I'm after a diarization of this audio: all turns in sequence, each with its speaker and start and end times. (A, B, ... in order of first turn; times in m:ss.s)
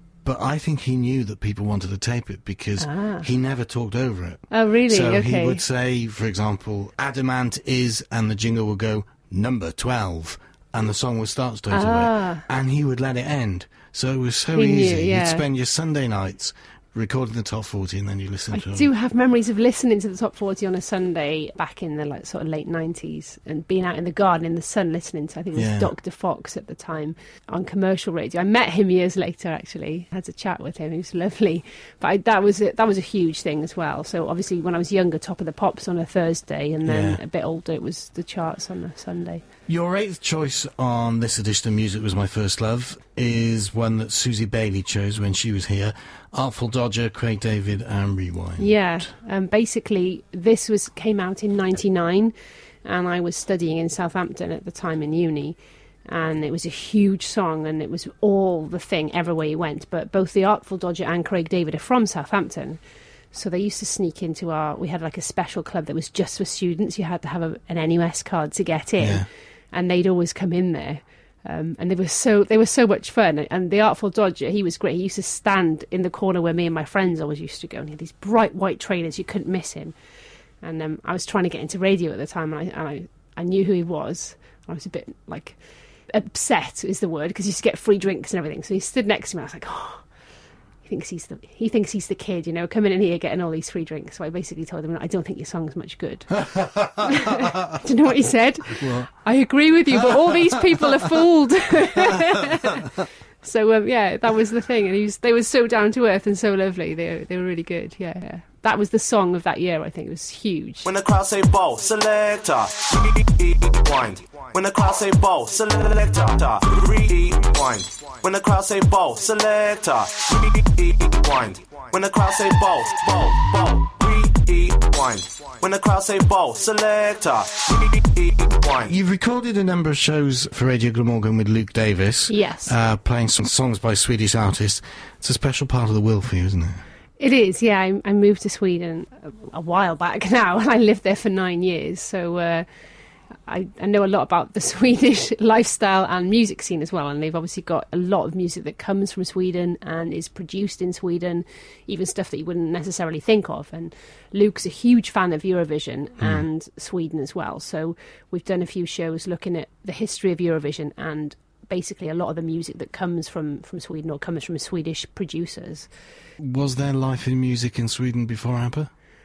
0:00.2-0:18.9 A
0:02.8-0:03.3 B
0:04.5-0:05.6 B
0:11.7-0:12.4 B
0:14.5-0:15.4 B
0:18.5-0:39.4 B
0:25.5-0:25.9 A
0:36.8-0:37.2 A
0:39.7-0:49.1 A
0:48.6-0:52.3 B
0:52.8-1:20.0 B
1:09.0-1:09.3 A
1:20.6-1:30.1 B
1:30.8-1:50.9 B
1:38.8-1:39.1 A
1:50.8-2:08.9 C
2:08.9-2:16.8 A
2:12.3-2:12.7 B
2:17.2-2:22.7 B
2:23.5-2:45.9 B
2:46.4-2:48.9 A